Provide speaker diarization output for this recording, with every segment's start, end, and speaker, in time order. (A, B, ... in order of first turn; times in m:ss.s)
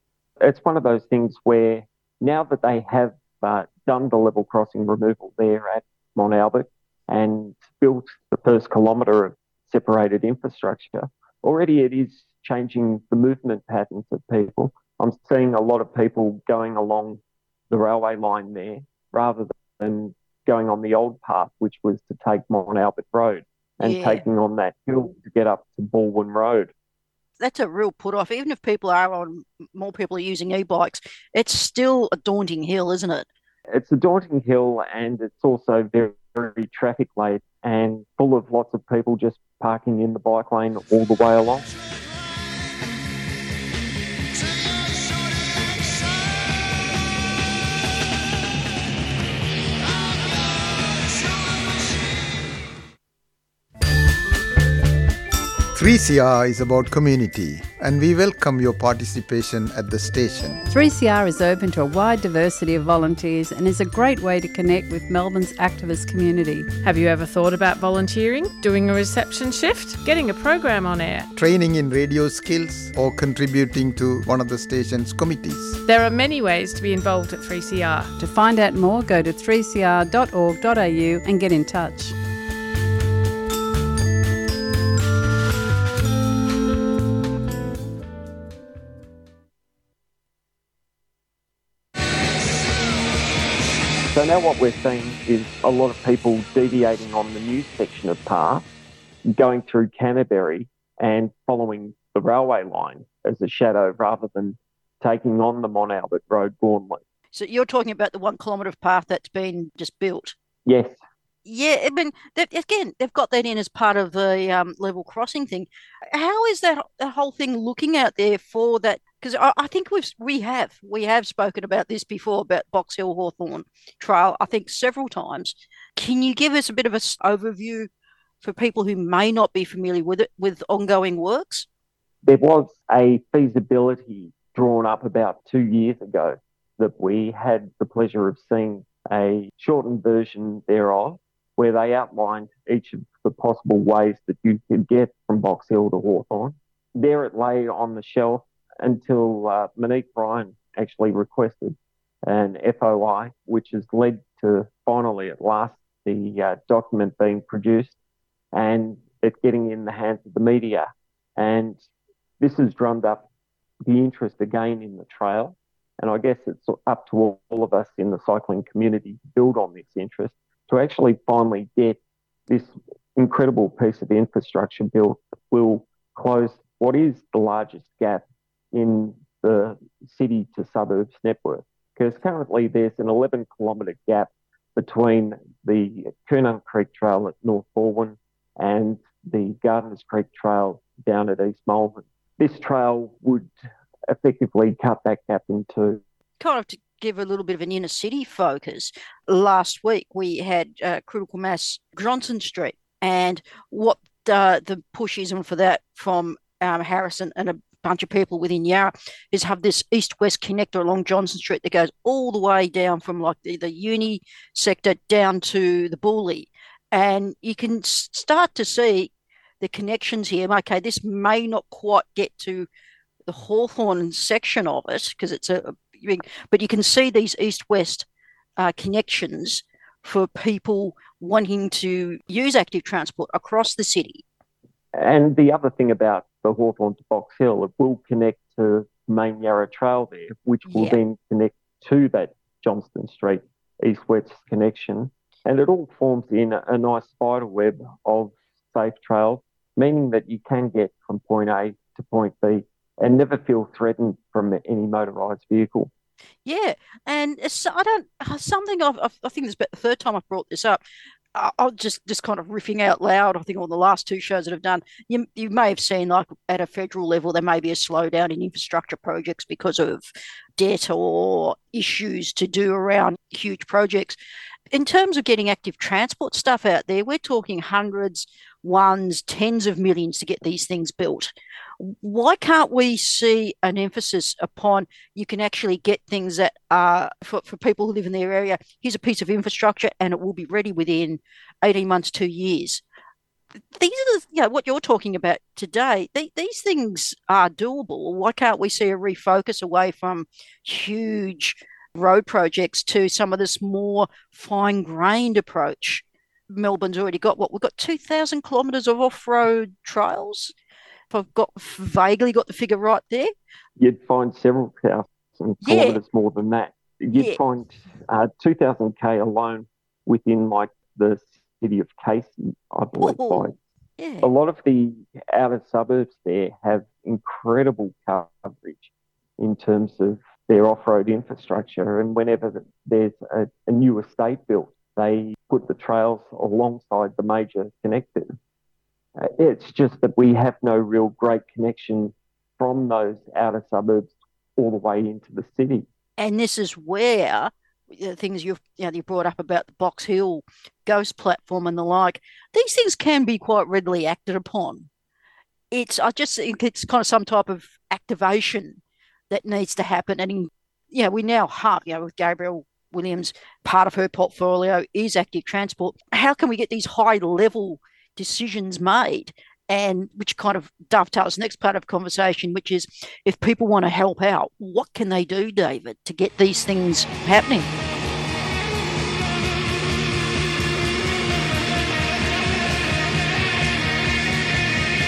0:00.4-0:26.7 A
0:23.8-0:24.2 B
0:27.4-0:33.3 B
0:33.7-0:41.7 A
0:55.7-1:00.6 C
1:00.7-1:07.1 D
1:06.8-1:11.3 E
1:11.3-1:15.8 C
1:15.8-1:18.1 E
1:18.2-1:22.2 D
1:34.1-1:38.6 A
1:39.3-1:47.0 A
1:47.3-1:50.3 B
1:50.6-1:51.0 A
1:51.4-2:07.9 B
2:08.4-2:11.6 B
2:12.2-2:37.9 A
2:38.5-2:41.8 A
2:42.4-2:43.2 A
2:43.8-3:13.5 A
3:14.1-3:16.0 A
3:16.4-3:42.7 B
3:43.3-3:48.0 B
3:48.6-3:54.2 B
3:54.9-4:15.9 A
4:00.6-4:01.0 B
4:16.4-4:20.8 B
4:21.3-4:34.2 B
4:34.7-4:52.8 B
4:53.7-5:10.5 B
5:11.1-5:13.3 B
5:13.8-5:23.6 A
5:15.6-5:16.0 B
5:17.1-5:17.4 B
5:23.0-5:23.4 B
5:24.0-5:24.3 B
5:24.2-5:38.3 A
5:39.2-5:45.8 A
5:46.2-5:54.9 B
5:55.7-6:17.7 B